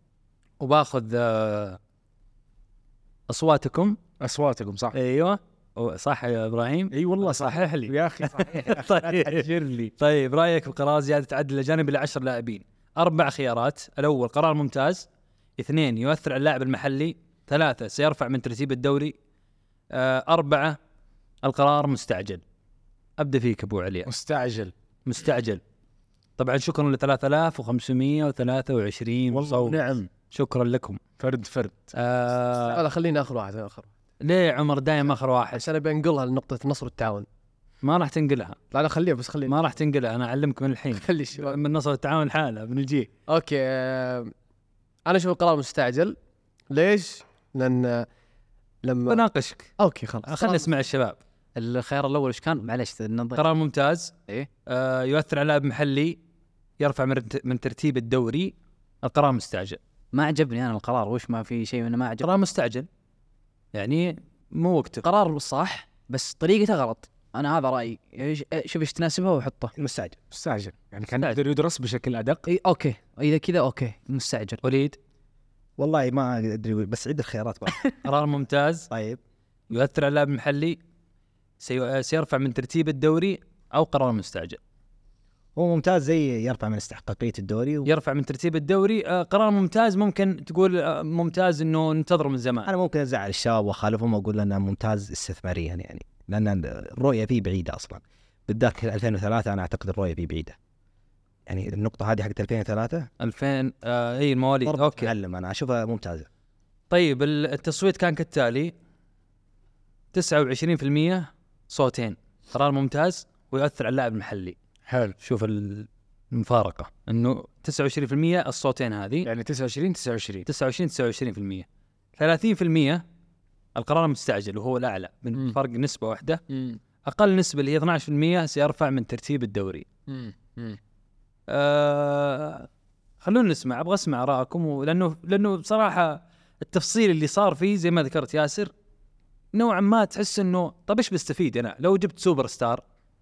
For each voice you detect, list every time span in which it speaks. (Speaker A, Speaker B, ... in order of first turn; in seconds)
Speaker A: 0.6-1.8, 3.3-4.0, 4.9-9.4, 10.0-15.1, 15.6-19.1, 19.9-20.8, 21.4-22.4, 23.2-24.1, 25.1-25.6, 26.4-29.8, 30.3-31.0, 31.9-32.8, 34.2-35.6, 37.8-38.6, 39.5-43.1, 49.1-49.7, 50.3-51.2, 53.4-54.1, 54.6-56.2, 56.8-59.8, 62.2-62.9, 63.7-65.1, 74.6-75.0, 78.0-78.9, 79.7-80.8, 81.6-84.6, 87.8-92.7, 103.2-105.1, 106.9-108.7, 110.1-114.6, 115.2-119.3, 120.5-121.7, 122.2-123.0, 123.8-126.4, 127.1-129.8, 131.5-132.7, 133.2-138.7, 139.5-142.8
Speaker B: 4.2-4.9, 6.9-9.9, 24.1-24.7, 29.3-30.1, 31.2-31.9, 70.3-72.4, 114.9-115.2, 119.3-120.5, 126.5-126.8, 130.1-130.8
Speaker C: 32.6-33.9, 35.5-37.3, 38.7-39.6, 40.9-41.6, 43.3-44.3, 45.1-46.1, 46.7-48.1, 48.8-49.2, 49.8-50.6
Speaker D: 51.6-53.4, 60.1-62.3, 65.0-69.7, 72.5-74.6
Speaker E: 69.8-70.2, 75.8-77.8, 78.9-79.2, 85.6-87.9, 92.6-100.6, 101.5-103.1, 104.6-106.3